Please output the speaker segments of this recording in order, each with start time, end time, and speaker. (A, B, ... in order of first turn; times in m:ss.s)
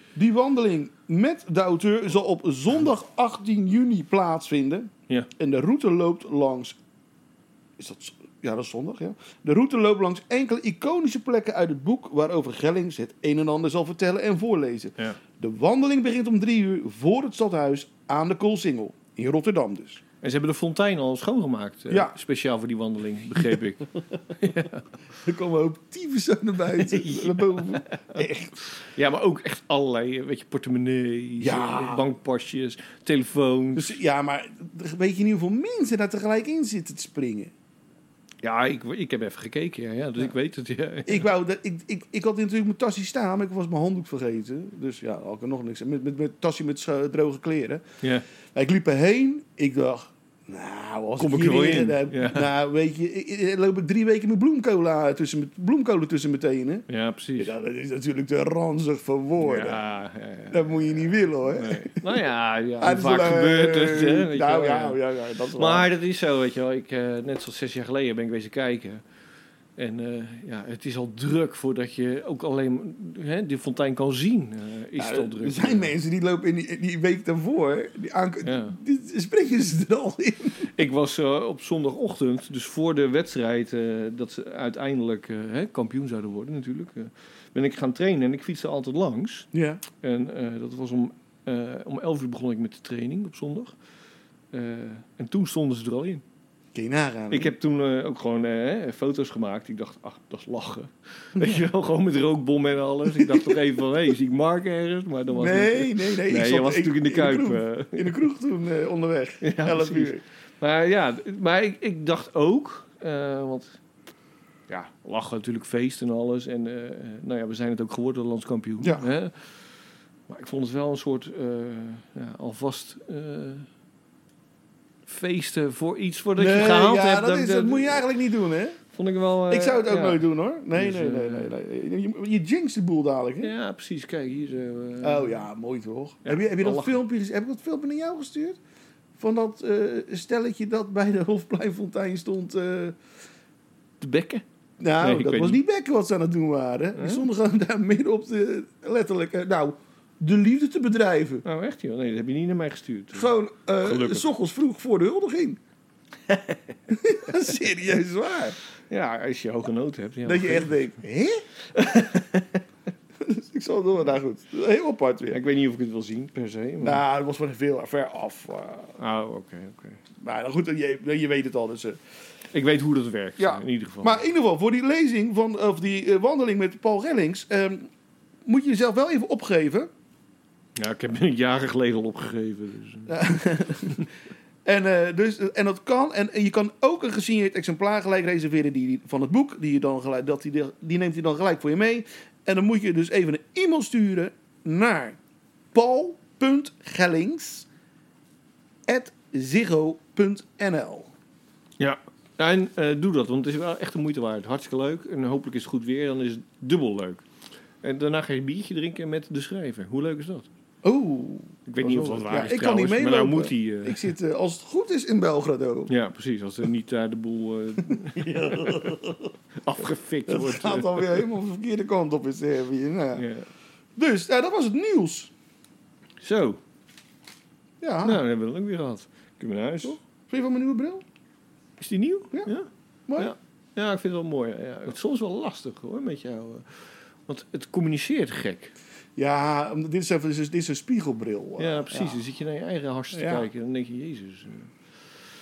0:00.2-0:06.8 A
0:07.8-0:20.0 A
0:20.2-0:24.8 B
0:21.9-0:22.2 A
0:25.2-0:28.5 A
0:26.8-0:28.0 B
0:28.7-0:34.0 B
0:31.4-0:32.0 A
0:33.8-0:37.5 A
0:38.4-0:41.3 B
0:41.1-0:47.8 A
0:48.5-0:56.9 A
0:51.2-0:52.5 B
0:56.9-0:57.5 B
0:57.4-0:59.8 A
0:59.4-1:05.0 B
1:00.5-1:02.2 A
1:02.8-1:05.9 A
1:05.6-1:09.0 B
1:09.8-1:15.9 B
1:15.0-1:20.7 A
1:18.4-1:18.8 B
1:20.7-1:29.5 B
1:29.5-1:29.8 A
1:30.0-1:33.8 B
1:34.5-1:36.2 B
1:36.7-1:37.5 A
1:37.3-1:48.2 B
1:41.4-1:41.6 A
1:43.1-1:43.6 A
1:45.3-1:50.2 A
1:49.4-1:53.8 B
1:54.7-1:59.5 B
1:58.8-1:59.1 A
2:00.3-2:03.7 B
2:05.1-2:08.0 B
2:06.4-2:08.8 A
2:08.9-2:11.5 B
2:09.5-2:13.5 A
2:13.4-2:15.4 B
2:15.0-2:18.6 A
2:16.2-2:17.0 B
2:19.2-2:23.0 A
2:24.0-2:24.4 B
2:24.8-2:31.4 A
2:25.0-2:25.6 B
2:27.0-2:27.2 B
2:31.4-2:34.3 B
2:33.1-2:35.6 A
2:36.9-2:38.6 A
2:38.9-2:40.8 B
2:40.2-2:41.4 A
2:41.7-2:42.4 B
2:43.2-2:45.4 A
2:45.3-2:47.0 B
2:46.8-2:49.0 A
2:49.0-2:50.0 B
2:50.2-2:52.0 A
2:52.5-2:54.2 B
2:53.4-2:57.9 A
2:58.4-2:59.9 A
3:00.8-3:03.2 B
3:03.1-3:04.1 A
3:04.6-3:15.2 A
3:15.7-3:17.7 A
3:18.9-3:21.1 A
3:21.8-3:27.2 B
3:27.8-3:30.5 B
3:30.8-3:35.9 A
3:31.7-3:34.1 B
3:35.9-3:39.0 B
3:37.9-3:39.3 A
3:39.6-3:41.3 B
3:40.3-3:43.3 A
3:43.2-3:43.5 B
3:44.0-3:45.3 A
3:46.2-3:46.6 B
3:47.8-3:48.2 A
3:48.0-3:50.0 B
3:49.8-3:51.0 A
3:51.8-3:58.7 B
3:53.1-3:53.3 A
3:59.2-4:02.2 A
4:01.6-4:04.7 B
4:03.1-4:03.5 A